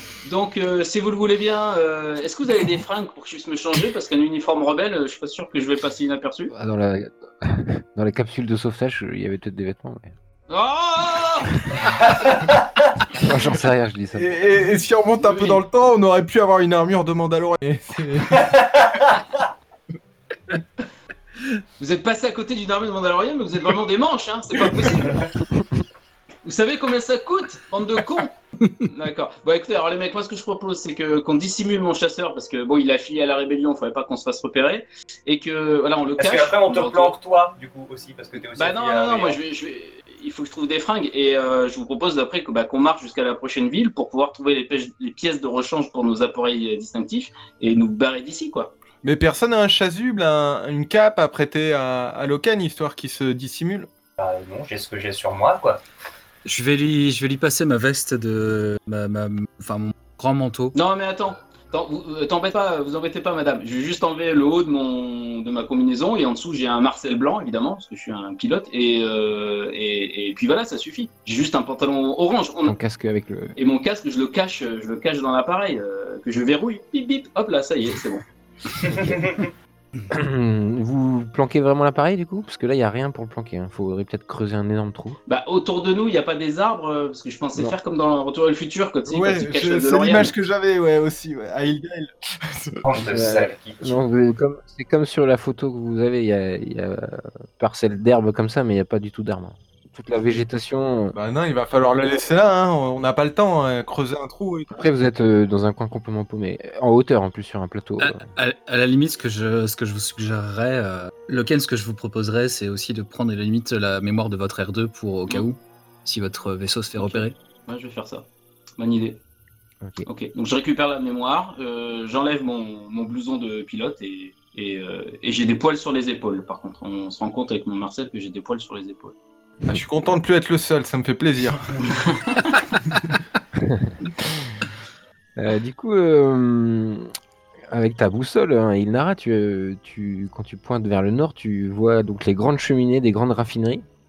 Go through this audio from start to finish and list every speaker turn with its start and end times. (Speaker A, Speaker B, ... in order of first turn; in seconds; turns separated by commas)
Speaker A: 0.2-6.5, Speaker B: 6.5-10.1, Speaker A: 10.5-11.6, Speaker B: 13.1-14.3, Speaker C: 14.1-18.6, Speaker A: 15.2-15.6, Speaker D: 18.4-19.2, Speaker A: 21.8-25.3, Speaker A: 26.4-28.3, Speaker A: 28.9-37.1, Speaker D: 36.2-39.4, Speaker A: 38.5-48.7, Speaker C: 49.0-53.9, Speaker D: 54.2-55.8, Speaker E: 56.4-60.7, Speaker A: 60.7-72.8, Speaker B: 72.6-73.5, Speaker A: 73.6-78.2, Speaker D: 78.9-79.4, Speaker B: 80.1-85.2, Speaker A: 85.2-90.3, Speaker C: 89.1-92.8, Speaker D: 92.8-94.0, Speaker B: 93.0-101.2, Speaker C: 101.1-104.8, Speaker B: 104.7-108.3, Speaker E: 108.0-117.3, Speaker A: 117.0-119.2, Speaker B: 119.8-120.1, Speaker A: 120.0-129.1, Speaker C: 129.7-132.0, Speaker A: 131.9-132.6, Speaker B: 133.6-133.9, Speaker B: 135.4-137.1, Speaker B: 137.7-143.8